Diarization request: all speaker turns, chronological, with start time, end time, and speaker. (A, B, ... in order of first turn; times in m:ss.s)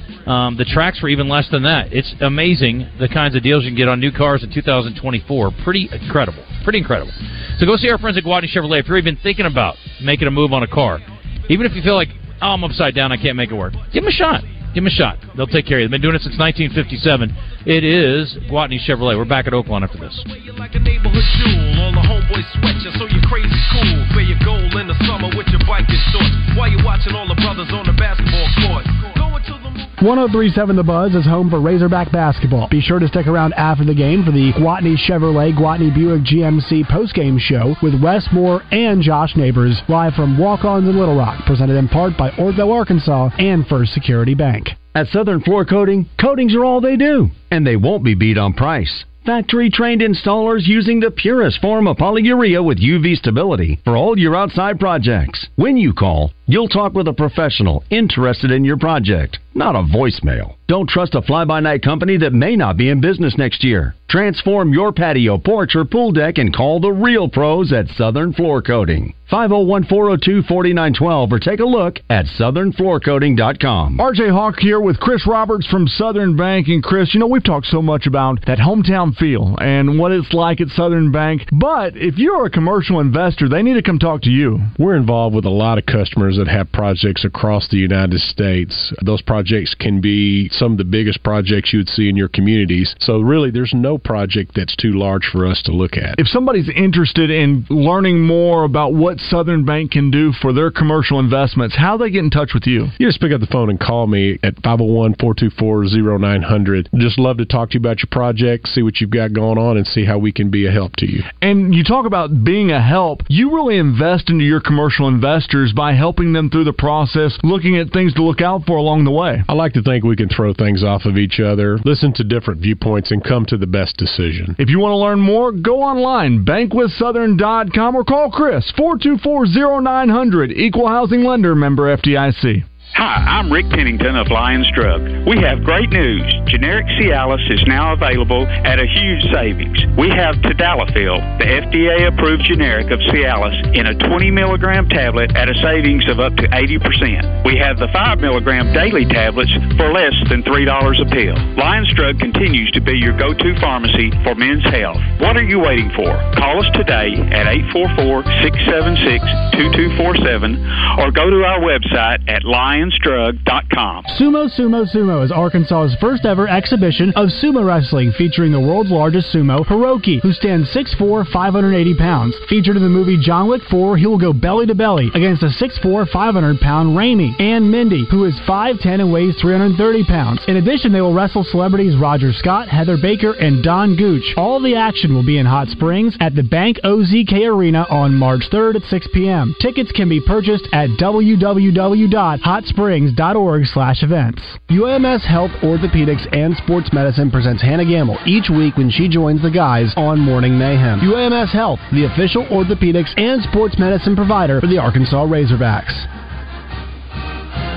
0:00.2-0:20.2 A
0:20.3-0:30.0 B
0:30.0-0:44.8 C
0:44.9-1:14.0 D
1:14.0-1:24.7 E
1:24.8-1:36.2 F
1:36.2-1:42.9 E
1:43.0-1:51.3 F
1:51.4-1:59.4 E
1:59.5-2:04.6 F
2:04.6-2:12.6 E
2:12.9-2:44.1 G
2:44.1-3:26.1 C